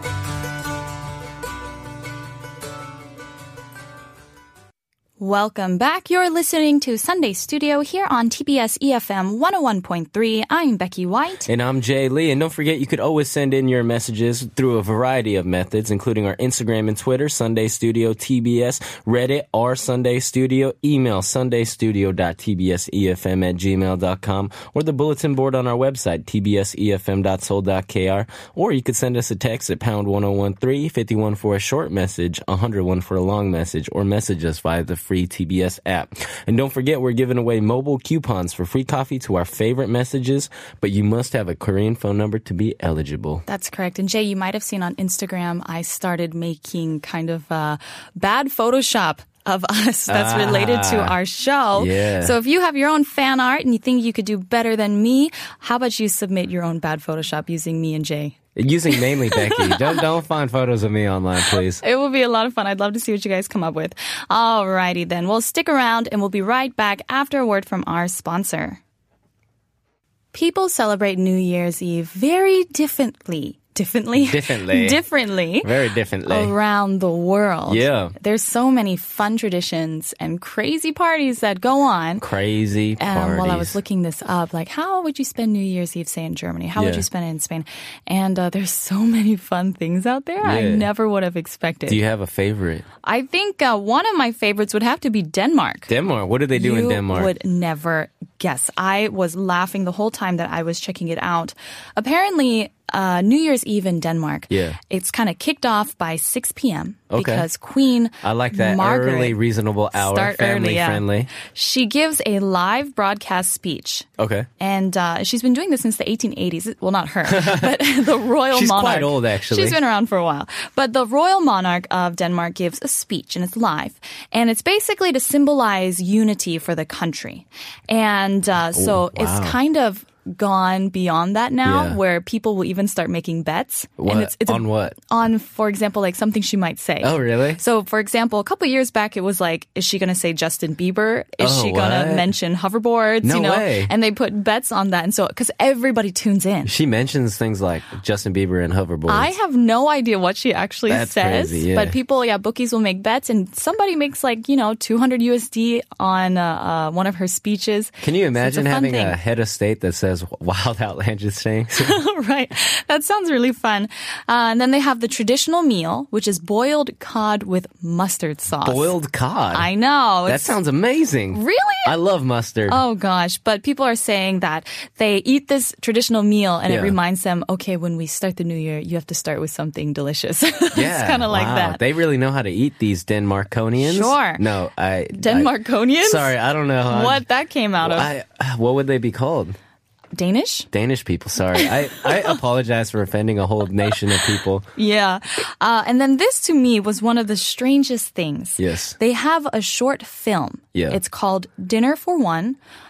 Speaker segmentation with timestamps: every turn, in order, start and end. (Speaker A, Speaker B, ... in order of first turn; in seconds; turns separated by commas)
Speaker A: 5.2-11.5, Speaker B: 11.4-43.4, Speaker A: 43.5-58.4, Speaker B: 50.1-51.1, Speaker B: 51.8-52.3, Speaker B: 58.5-61.8, Speaker A: 58.9-60.0, Speaker A: 61.5-68.8, Speaker A: 70.3-75.7, Speaker B: 74.2-75.0, Speaker B: 75.6-76.5, Speaker A: 76.2-82.2, Speaker B: 77.7-78.1, Speaker B: 82.2-83.8, Speaker A: 83.0-92.0, Speaker B: 86.8-87.0, Speaker B: 90.4-90.9, Speaker B: 91.9-92.9, Speaker A: 93.0-95.9, Speaker B: 95.9-97.3, Speaker A: 96.5-109.4, Speaker B: 104.5-104.8, Speaker B: 107.1-107.5, Speaker B: 108.2-111.3, Speaker A: 109.9-114.1, Speaker B: 114.2-114.5, Speaker A: 114.6-146.7, Speaker B: 117.2-117.8, Speaker B: 118.5-119.8, Speaker B: 128.7-129.6, Speaker B: 131.6-132.0, Speaker B: 134.0-134.9, Speaker B: 137.0-137.6, Speaker B: 141.4-142.3, Speaker B: 143.2-143.9, Speaker B: 146.6-149.3, Speaker A: 149.1-159.2, Speaker B: 150.9-151.9, Speaker B: 158.0-162.0, Speaker A: 161.8-168.9, Speaker B: 168.6-169.7, Speaker A: 169.5-170.6, Speaker B: 170.3-172.8, Speaker A: 171.3-171.9, Speaker A: 172.7-181.8, Speaker B: 176.7-176.9, Speaker B: 180.7-187.2, Speaker A: 183.8-184.4, Speaker A: 185.1-186.3, Speaker A: 186.9-188.1, Speaker B: 187.8-189.6, Speaker A: 190.1-190.7, Speaker B: 190.7-194.7, Speaker A: 191.6-192.3, Speaker A: 194.8-202.6, Speaker B: 198.6-199.0